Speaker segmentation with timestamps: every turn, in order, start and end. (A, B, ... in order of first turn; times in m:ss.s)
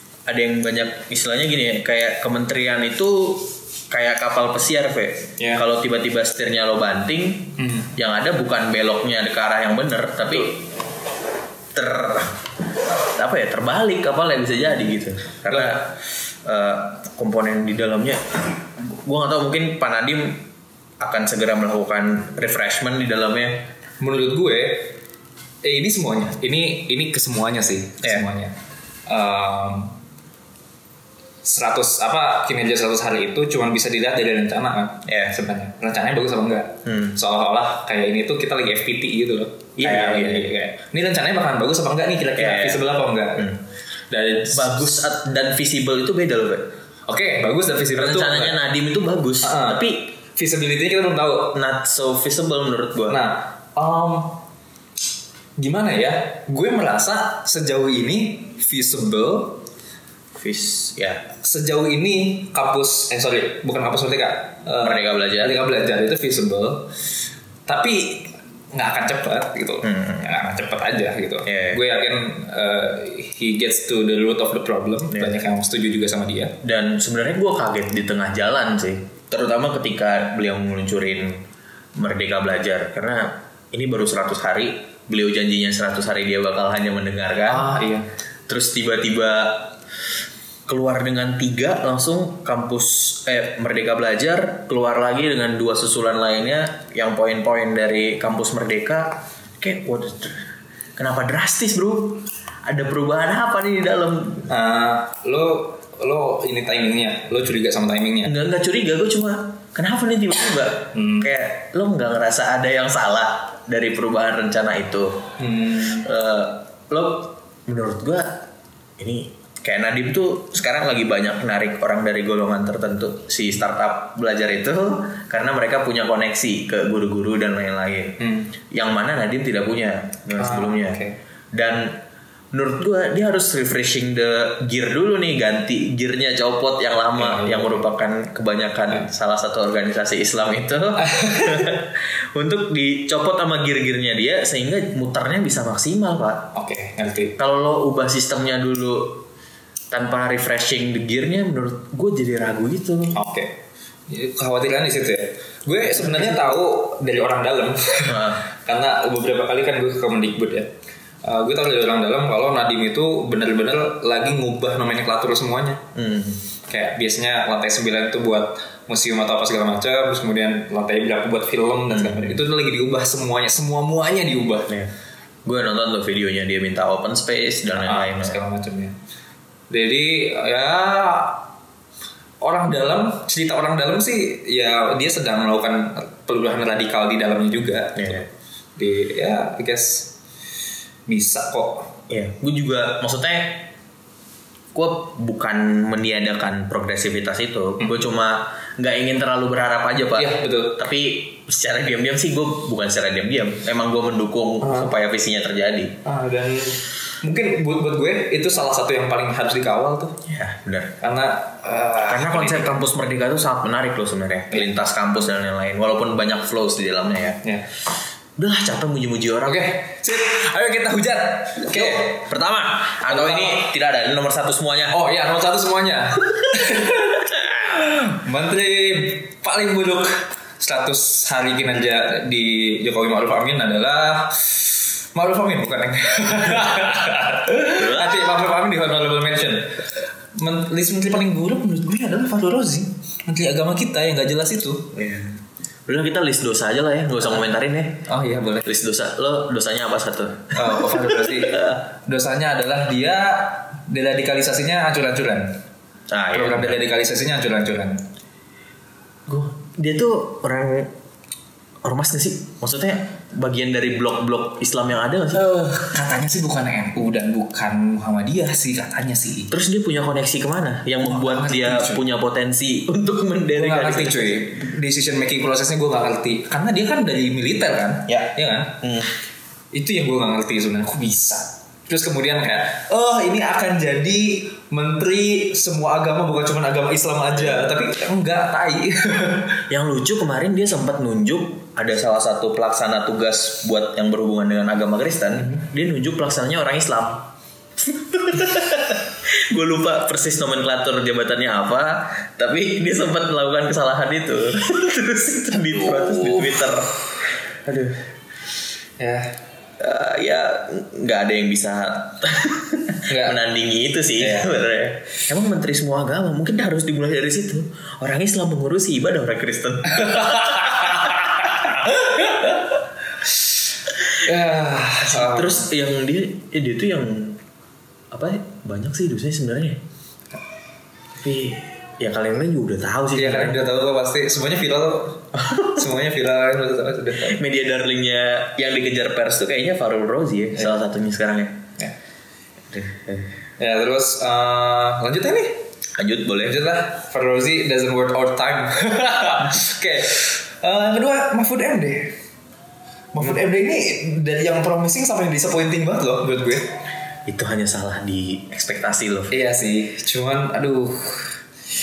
0:00.3-0:10.7 A
0:05.4-0:05.6 B
0:07.6-0:07.9 B
0:11.7-0:20.5 A
0:15.5-0:15.8 B
0:21.0-0:23.6 A
0:24.0-0:24.9 B
0:25.6-0:28.6 B
0:29.1-0:29.9 B
0:31.4-0:43.6 B
0:35.1-0:35.4 A
0:36.9-0:37.2 A
0:39.8-0:40.5 A
0:42.4-0:42.8 A
0:44.1-0:44.9 B
0:44.5-0:46.7 A
0:47.1-0:48.6 B
0:48.0-0:50.1 A
0:49.4-0:51.6 B
0:51.5-0:53.2 A
0:53.1-0:54.4 B
0:55.6-0:59.6 B
1:00.3-1:01.2 A
1:01.4-1:06.9 B
1:04.8-1:05.6 A
1:07.7-1:16.6 B
1:09.8-1:10.3 A
1:11.5-1:11.8 A
1:15.1-1:15.4 A
1:16.6-1:21.4 A
1:22.0-1:27.7 A
1:27.5-1:28.1 B
1:28.5-1:29.7 A
1:30.7-1:44.5 A
1:44.5-1:48.4 B
1:48.2-1:55.3 A
1:50.9-1:51.3 B
1:55.4-1:56.1 B
1:56.0-1:58.5 A
1:59.0-2:08.2 A
2:08.2-2:08.5 B
2:08.7-2:11.0 A
2:10.4-2:11.2 B
2:11.5-2:12.0 A
2:12.5-2:26.5 A
2:17.2-2:17.8 B
2:21.0-2:21.8 B
2:26.5-2:27.4 B
2:27.4-2:29.3 A
2:29.9-2:33.2 A
2:33.1-2:40.7 B
2:35.9-2:36.6 A
2:38.1-2:38.4 A
2:41.2-2:45.8 B
2:46.0-2:46.4 A
2:46.7-2:54.8 B
2:51.9-2:52.4 A
2:55.4-2:58.4 A
2:57.7-2:59.0 B
2:59.7-3:01.4 B
3:02.4-3:08.2 B
3:08.0-3:08.3 A
3:08.8-3:10.1 B
3:11.1-3:11.9 B
3:12.1-3:13.7 A
3:14.7-3:26.0 A
3:20.2-3:20.8 B
3:24.6-3:24.9 B
3:26.0-3:30.2 B
3:30.2-3:31.0 A
3:31.0-3:32.7 B
3:32.0-3:37.4 A
3:38.4-3:39.7 A
3:39.4-3:42.2 B
3:41.7-3:45.0 A
3:43.1-3:43.7 B
3:44.9-4:04.9 B
3:57.7-3:58.3 A
4:04.9-4:08.1 A
4:08.1-4:08.7 B
4:08.6-4:11.8 A
4:10.5-4:15.6 B
4:16.1-4:16.8 A
4:16.3-4:18.0 B
4:19.3-4:20.9 A
4:21.8-4:25.5 A
4:25.3-4:29.5 B
4:29.5-4:34.4 A
4:31.0-4:32.0 B
4:33.5-4:38.8 B
4:38.1-4:39.1 A
4:39.7-4:49.6 B
4:47.3-4:47.7 A
4:49.7-5:08.1 A
5:05.8-5:06.6 B
5:09.0-5:09.3 B
5:09.8-5:22.0 A
5:13.1-5:13.4 B
5:14.2-5:14.6 B
5:19.9-5:22.6 B
5:24.1-5:25.6 B
5:25.0-5:27.4 A
5:28.1-5:29.8 A
5:31.2-5:33.6 A
5:33.2-5:37.4 B
5:35.4-5:35.8 A
5:37.2-5:41.7 A
5:42.7-5:43.3 A
5:43.6-5:45.6 B
5:46.0-5:46.6 A
5:46.4-5:52.2 B
5:53.1-5:56.7 B
5:57.3-5:59.3 A
5:59.3-6:01.4 B